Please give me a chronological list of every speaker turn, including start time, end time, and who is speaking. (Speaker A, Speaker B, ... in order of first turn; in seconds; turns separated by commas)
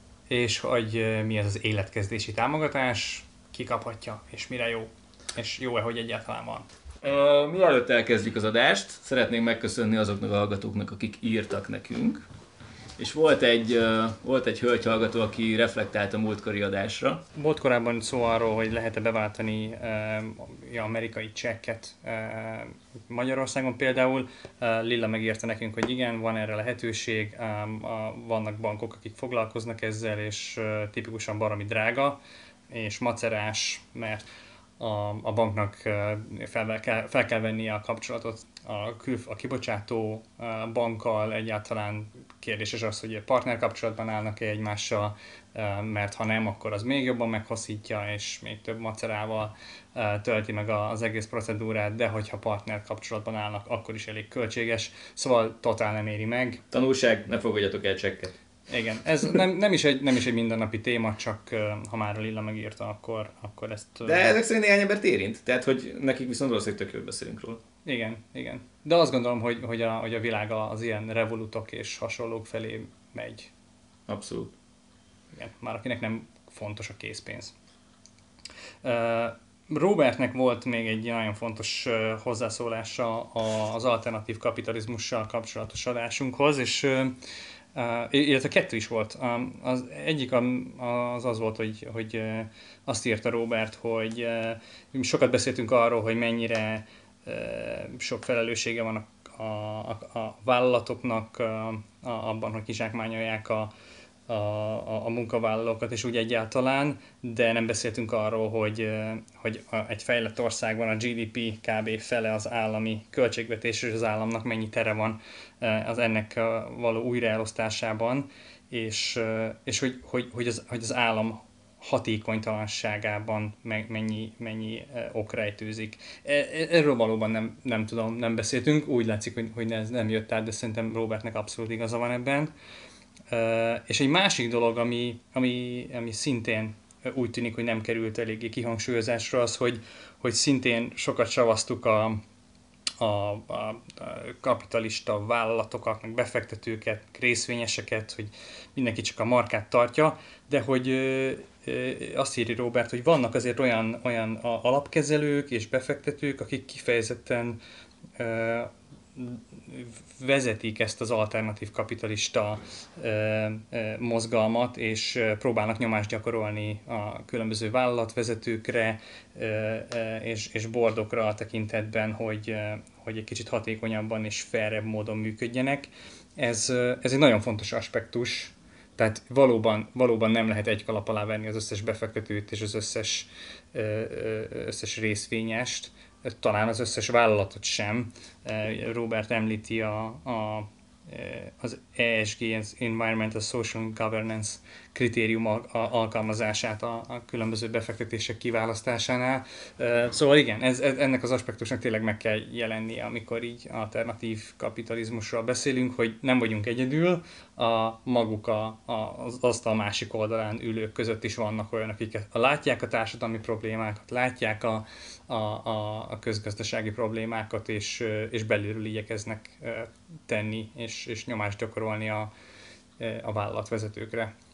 Speaker A: 0.3-6.7, Speaker B: 7.0-12.2, Speaker B: 13.0-17.2, Speaker A: 17.3-34.2, Speaker A: 34.8-56.6, Speaker B: 56.7-58.3, Speaker A: 58.7-64.3, Speaker B: 64.0-67.6, Speaker A: 67.8-73.5, Speaker B: 74.1-74.5, Speaker A: 75.3-77.5, Speaker A: 78.8-87.1, Speaker A: 87.7-103.7, Speaker A: 104.3-132.5, Speaker A: 133.3-142.2, Speaker A: 143.0-157.6, Speaker A: 158.2-222.3, Speaker A: 223.0-224.3